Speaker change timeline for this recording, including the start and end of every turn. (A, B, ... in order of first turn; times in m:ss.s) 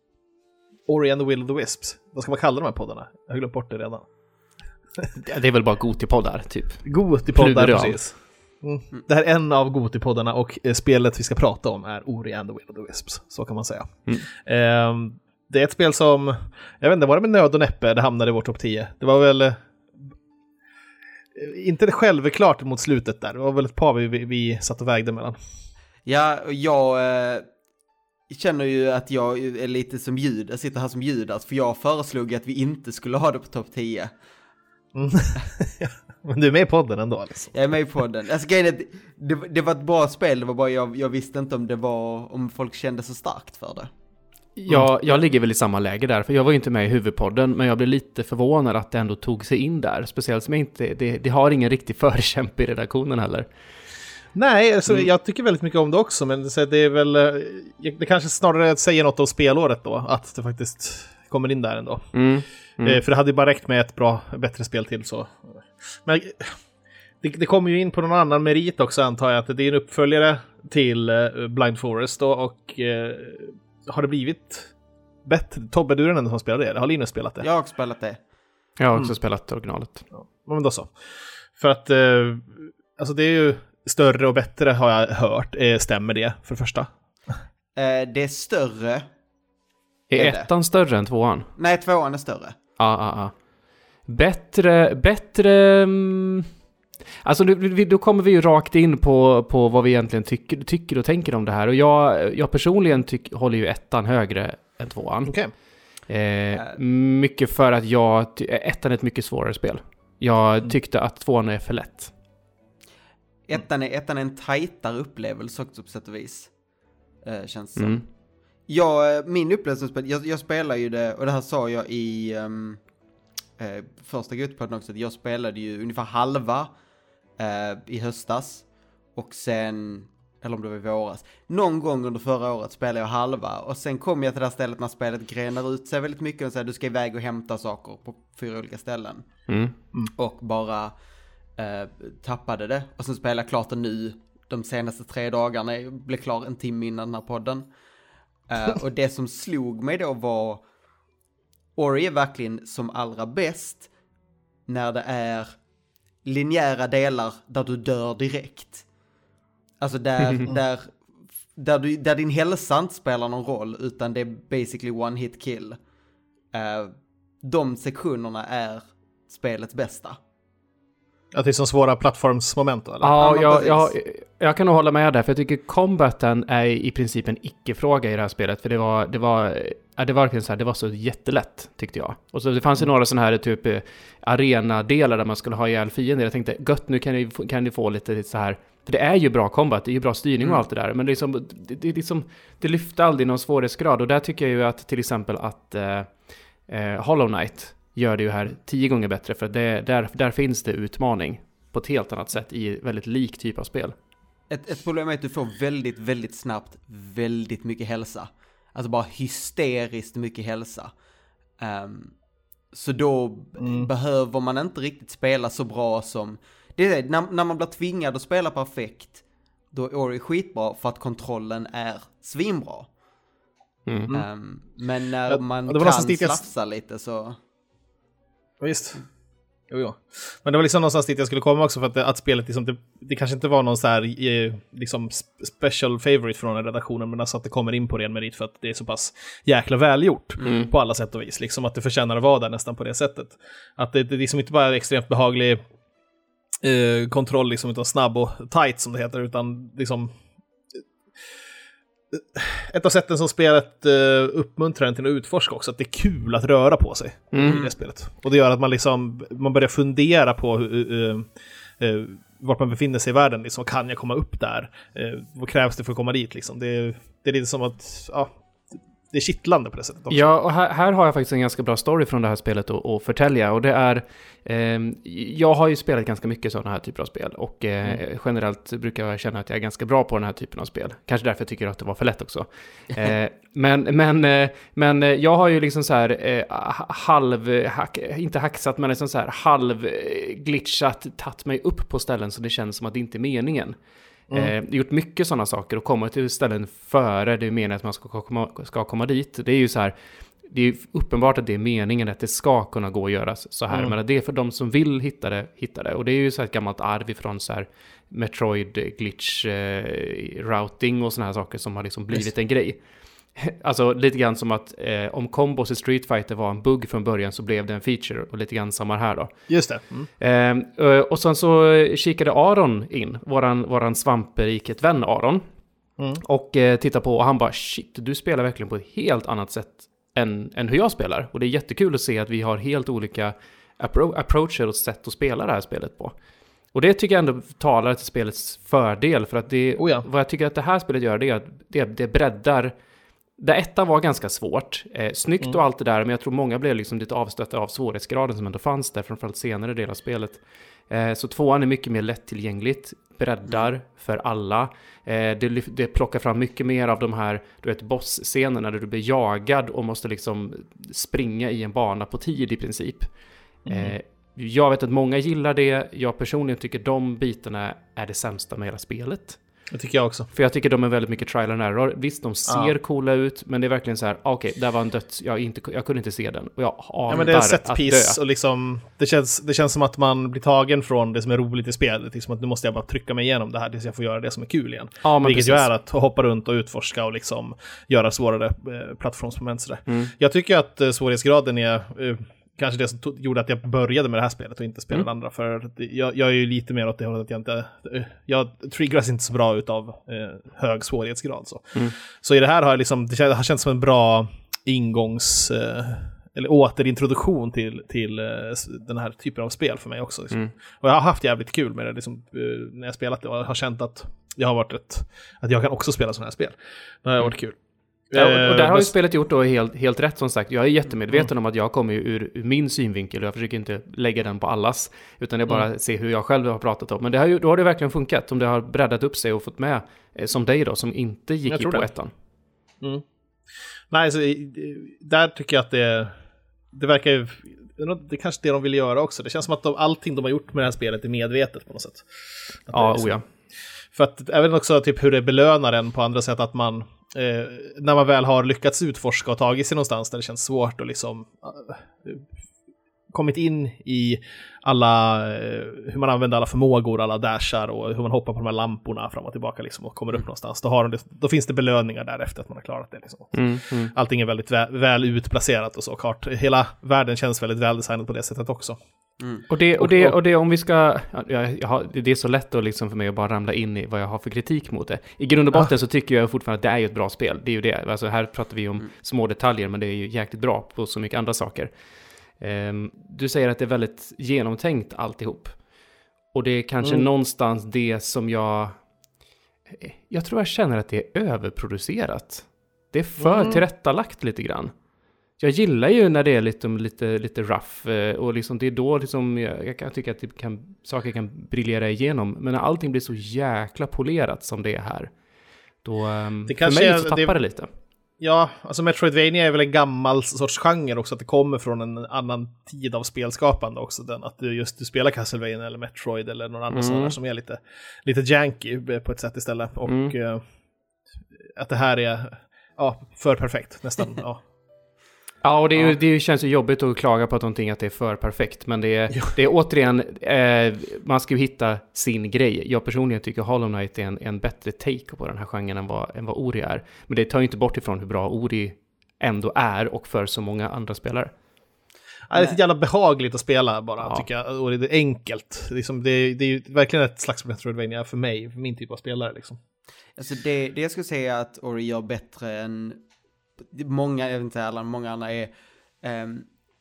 0:00.9-0:04.0 A
0:05.2-0:08.0 B
0:06.8-0:19.6 A
0:21.4-0:25.4 A
0:26.1-0:27.5 C
0:28.3-0:34.1 C
0:34.9-0:37.6 A
0:37.5-0:43.9 C
0:44.6-0:53.4 B
0:54.3-1:02.1 A
1:02.1-1:03.0 B
1:02.8-1:06.6 A
1:07.2-1:14.7 A
1:15.2-1:17.4 A
1:17.4-1:18.2 C
1:18.8-1:20.0 B
1:20.1-1:26.9 A
1:27.8-1:29.0 C
1:30.1-1:31.5 B
1:30.2-1:30.5 C
1:31.6-1:32.6 C
1:32.8-1:33.3 B
1:34.1-1:36.5 B
1:37.2-1:45.4 B
1:45.2-1:45.5 A
1:46.1-1:52.1 B
1:53.5-1:56.5 C
1:57.2-1:58.0 C
1:58.7-2:02.8 C
2:03.6-2:06.7 C
2:07.4-2:19.3 C
2:19.5-2:19.8 B
2:20.2-2:20.9 C
2:21.6-2:27.7 C
2:28.5-2:30.6 C
2:31.8-2:33.9 C
2:34.7-2:35.6 C
2:36.2-2:38.9 C
2:39.8-2:41.0 C
2:41.6-2:45.8 C
2:46.5-2:50.2 C
2:51.3-2:53.2 A
2:53.0-3:23.9 B
2:53.2-2:53.9 C
3:24.5-3:30.9 C
3:31.6-3:32.2 C
3:32.7-3:42.9 C
3:33.6-3:33.9 A
3:43.9-3:44.1 B
3:44.1-3:47.4 C
3:45.3-3:46.4 A
3:48.6-3:49.0 A
3:49.7-4:05.6 A
4:00.4-4:00.7 B
4:06.6-4:10.1 A
4:12.1-4:30.2 A
4:17.3-4:17.7 B
4:30.1-4:53.8 B
4:54.3-5:12.8 B
5:03.7-5:04.0 A
5:13.4-5:19.4 B
5:19.5-5:20.1 A
5:20.2-5:25.4 B
5:26.2-5:36.2 B
5:36.7-5:42.7 B
5:39.8-5:40.1 A
5:43.4-6:03.1 B
6:03.6-6:09.4 B
6:03.7-6:04.0 A
6:09.7-6:10.3 A
6:10.3-6:18.2 B
6:12.5-6:12.7 A
6:17.1-6:57.6 A
6:25.0-6:25.7 B
6:58.1-6:58.9 A
6:58.2-7:12.1 B
7:11.5-7:11.9 A
7:13.9-7:16.1 A
7:16.7-7:23.2 A
7:22.7-7:23.2 B
7:23.9-7:32.3 A
7:33.1-7:48.8 A
7:43.3-7:43.9 B
7:49.2-7:49.4 C
7:49.5-8:01.7 B
7:49.8-7:50.2 A
8:02.4-8:05.6 B
8:06.3-8:08.8 B
8:06.8-8:07.1 A
8:09.7-8:14.7 B
8:13.2-8:13.6 A
8:15.4-8:25.1 B
8:25.8-8:27.7 B
8:26.5-8:27.4 A
8:28.2-8:40.4 A
8:36.7-8:37.2 B
8:39.9-8:40.1 B
8:41.4-8:44.4 A
8:45.4-9:01.3 B
9:02.3-9:09.6 A
9:10.2-9:13.0 C
9:13.6-9:16.5 C